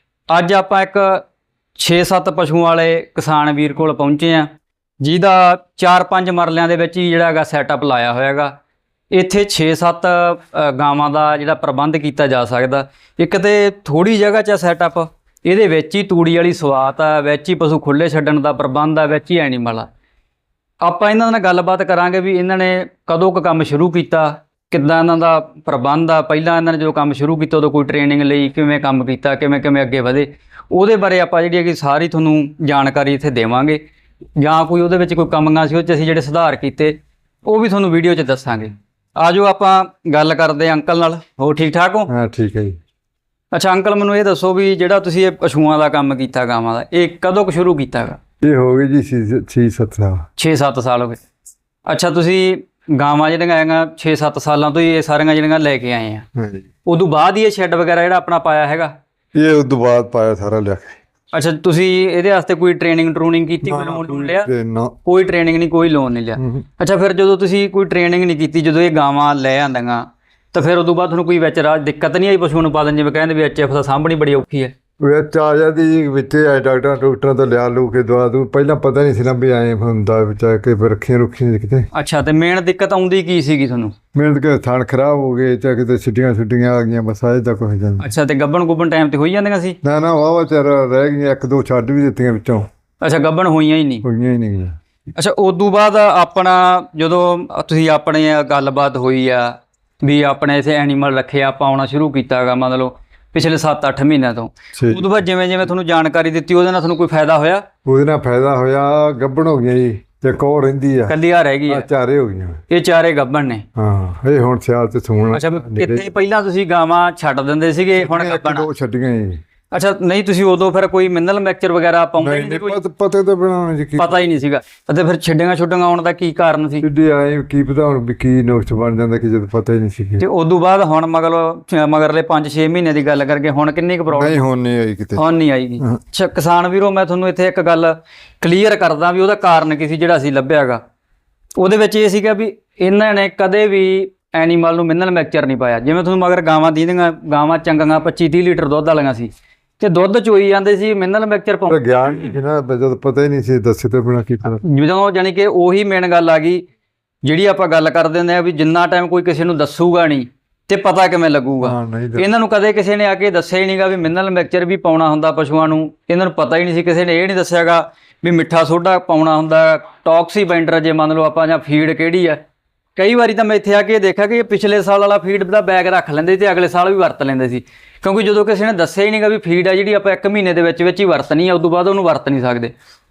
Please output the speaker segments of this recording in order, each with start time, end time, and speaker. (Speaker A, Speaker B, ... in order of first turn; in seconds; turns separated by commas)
Speaker A: 0.3-1.2, Speaker A: 1.8-4.5, Speaker A: 5.0-8.5, Speaker A: 9.1-19.9, Speaker A: 20.8-33.8, Speaker A: 34.4-37.0, Speaker A: 37.5-42.1, Speaker B: 42.1-42.8, Speaker A: 43.5-48.2, Speaker B: 48.4-50.2, Speaker A: 50.4-51.2, Speaker A: 51.9-56.2, Speaker B: 56.4-56.6, Speaker A: 56.9-58.9, Speaker B: 59.4-61.0, Speaker A: 61.3-64.5, Speaker B: 63.6-65.0, Speaker A: 65.0-74.7, Speaker B: 66.4-66.7, Speaker B: 75.0-81.9, Speaker A: 81.9-83.9, Speaker B: 84.2-88.1, Speaker A: 88.0-89.8, Speaker B: 89.8-92.7, Speaker A: 93.0-94.0, Speaker B: 94.0-94.8, Speaker A: 95.2-107.6, Speaker B: 104.8-105.0, Speaker B: 107.8-111.2, Speaker A: 111.1-111.9, Speaker B: 111.7-112.6, Speaker A: 112.7-113.6, Speaker B: 113.8-116.1, Speaker A: 115.3-118.7, Speaker B: 118.0-119.4, Speaker A: 119.7-122.8, Speaker B: 122.2-124.1, Speaker A: 124.0-126.8, Speaker B: 126.8-130.2, Speaker A: 130.2-134.4, Speaker B: 134.1-135.2, Speaker A: 135.2-140.8, Speaker A: 141.6-151.8, Speaker B: 151.7-154.6, Speaker A: 154.6-156.6, Speaker A: 157.2-172.4, Speaker B: 161.6-162.3, Speaker A: 173.0-182.7